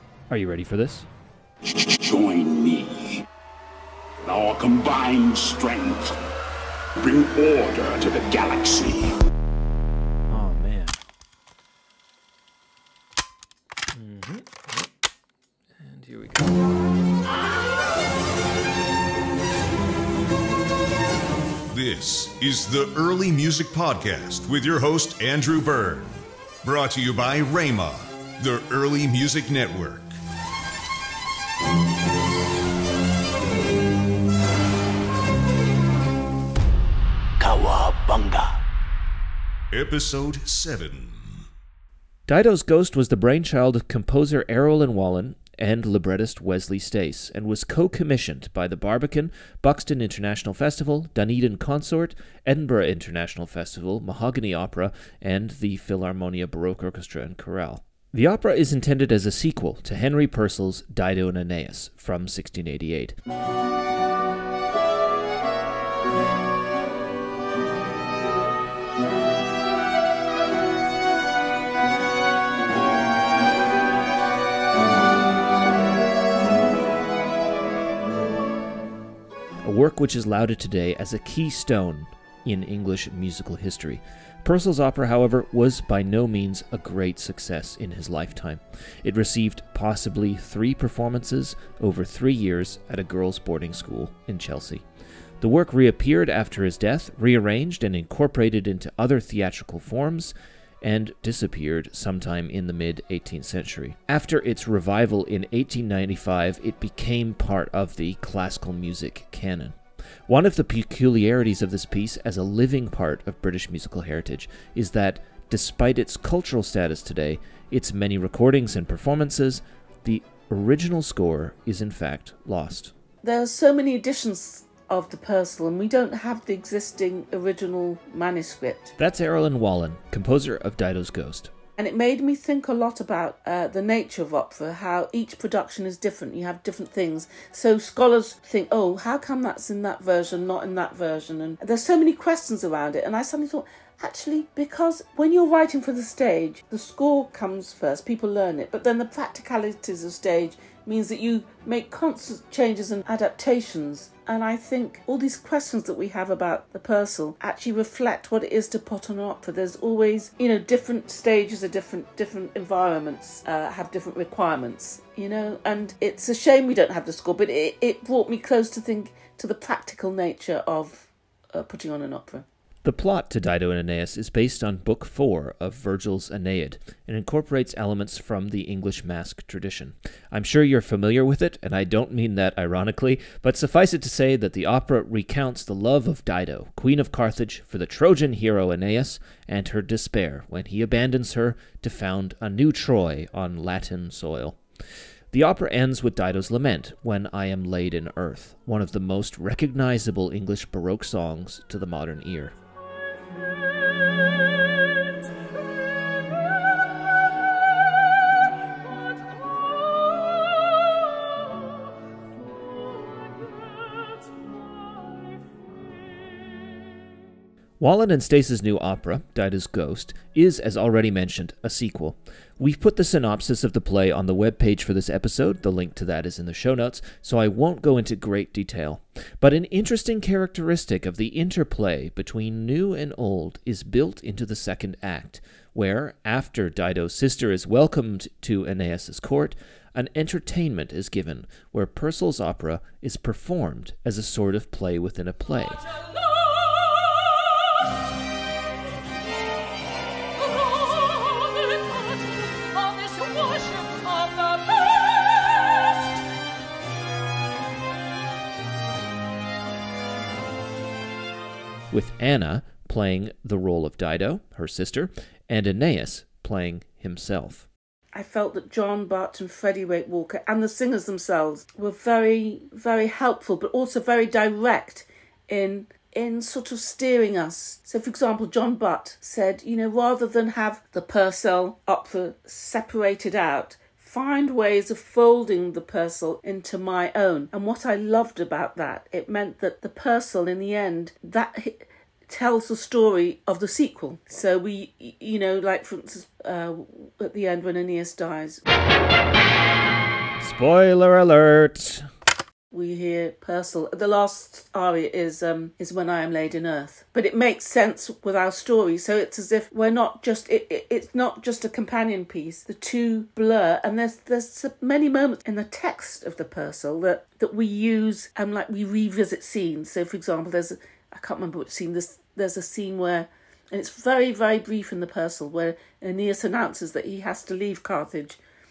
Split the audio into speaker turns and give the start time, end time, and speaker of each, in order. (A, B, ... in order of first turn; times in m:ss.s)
0:00.3-0:01.1 A
0:01.6-0:03.3 B
0:04.2-0:06.2 B
0:07.0-0:09.1 B
0:10.3-0:11.0 A
0:13.9-0:14.9 A
0:15.8-0:16.5 A
0:21.7-0:30.1 C
0:37.4-0:38.5 B
0:39.7-0:41.3 C
0:42.3-1:03.1 A
1:19.6-1:34.8 A
1:35.4-1:49.8 A
1:50.3-2:02.9 A
2:03.2-2:09.0 D
2:09.0-2:11.5 A
2:11.8-2:52.5 D
2:52.8-3:14.6 A
3:15.3-3:22.5 A
3:37.8-4:05.9 A
4:13.0-4:15.0 B
4:21.9-4:27.7 A
4:28.1-4:58.6 D
5:00.4-5:02.0 A
5:02.7-5:28.4 D